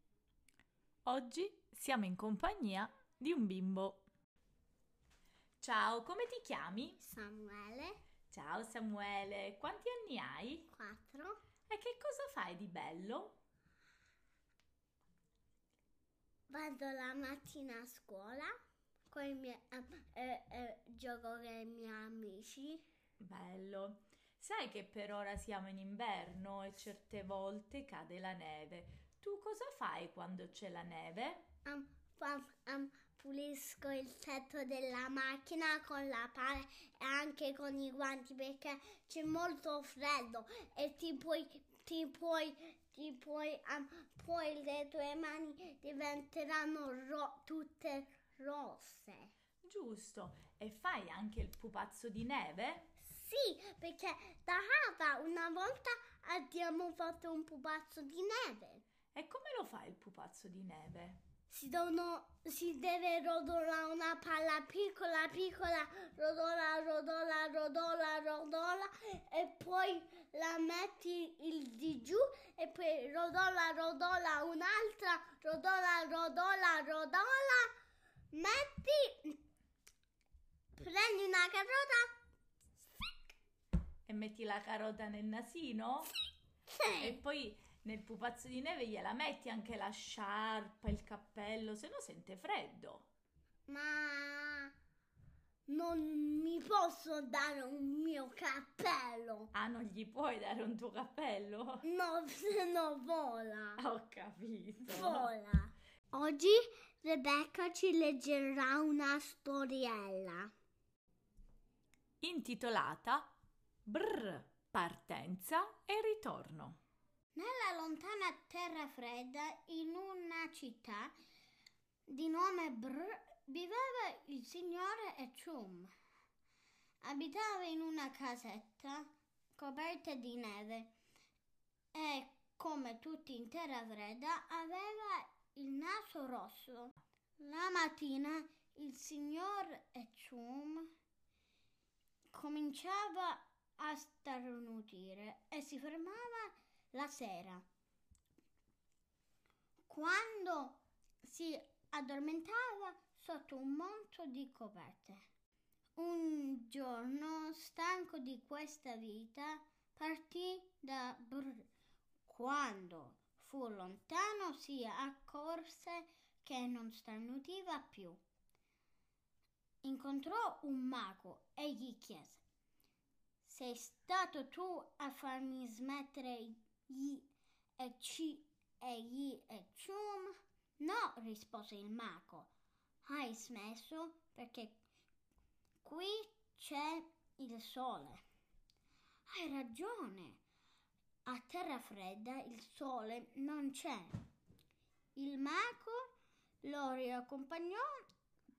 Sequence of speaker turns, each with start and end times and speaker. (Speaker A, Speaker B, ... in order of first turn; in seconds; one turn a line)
Speaker A: 1.0-4.0
Speaker A: 5.6-7.0
Speaker B: 7.0-8.0
Speaker A: 8.3-10.7
Speaker B: 10.7-11.4
Speaker A: 11.7-13.4
Speaker B: 16.5-18.5
Speaker B: 19.1-22.8
Speaker A: 23.2-31.4
Speaker B: 31.6-49.3
Speaker A: 49.6-52.9
Speaker B: 53.0-58.8
Speaker A: 59.1-61.2
Speaker B: 61.5-77.7
Speaker B: 78.3-79.4
Speaker B: 80.8-82.1
Speaker A: 84.0-86.1
Speaker B: 86.7-87.2
Speaker A: 87.0-93.1
Speaker B: 93.7-94.7
Speaker B: 95.7-99.5
Speaker A: 99.5-101.8
Speaker B: 101.8-103.8
Speaker A: 103.8-105.3
Speaker B: 104.8-110.5
Speaker A: 112.2-113.3
Speaker A: 113.8-116.8
Speaker B: 117.3-121.1
Speaker B: 122.1-125.9
Speaker B: 127.0-130.9
Speaker B: 131.9-140.9
Speaker B: 142.3-147.6
Speaker B: 149.9-155.2
Speaker B: 155.9-161.7
Speaker B: 162.2-168.2
Speaker B: 169.8-172.4
Speaker B: 173.4-177.2
Speaker B: 177.8-182.5
Speaker B: 183.0-184.8
Speaker B: 185.8-188.2
Speaker B: 189.3-190.4
Speaker B: 191.2-194.1
Speaker B: 195.2-196.1
Speaker B: 196.6-198.0